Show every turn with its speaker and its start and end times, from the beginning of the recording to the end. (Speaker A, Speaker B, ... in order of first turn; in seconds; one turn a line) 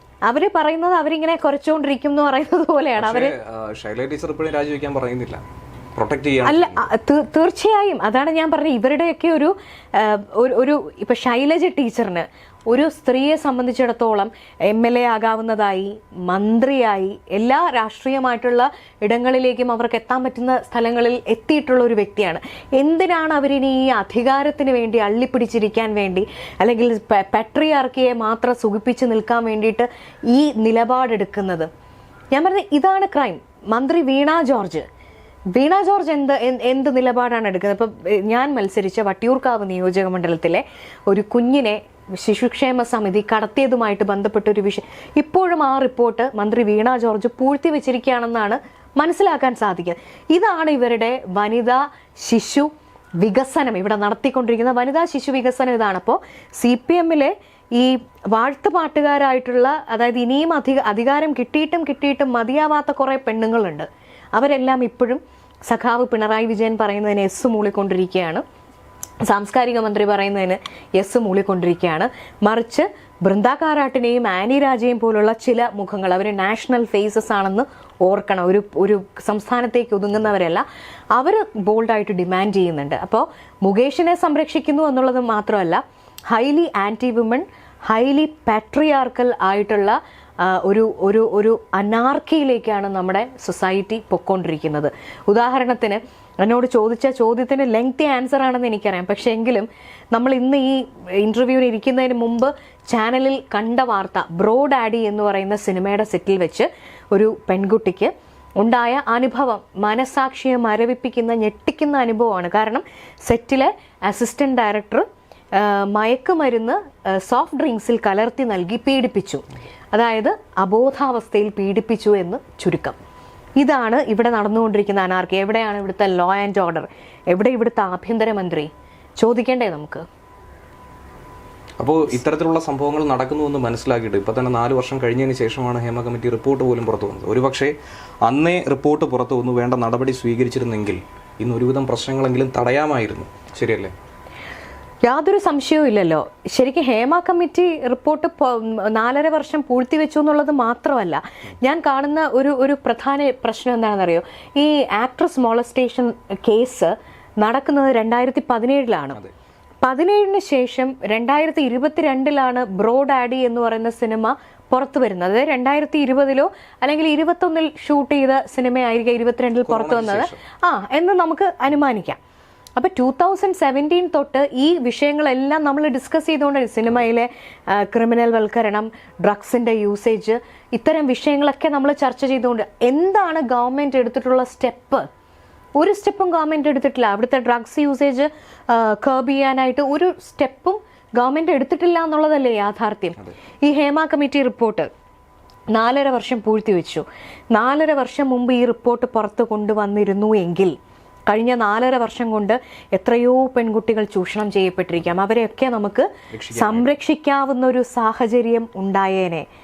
Speaker A: 0.2-3.3
Speaker B: 3.0-5.4
Speaker B: 5.9-6.9
Speaker A: 6.4-31.7
Speaker A: 32.3-34.8
Speaker A: 35.5-68.4
Speaker A: 69.3-123.0
Speaker A: 123.6-130.0
Speaker B: 131.8-137.7
Speaker B: 138.2-143.9
Speaker A: 145.1-159.2
Speaker A: 159.8-172.2
Speaker B: 169.6-170.4
Speaker A: 172.8-185.1
Speaker A: 185.8-194.9
Speaker A: 195.7-200.7
Speaker A: 201.3-209.4
Speaker B: 206.3-206.9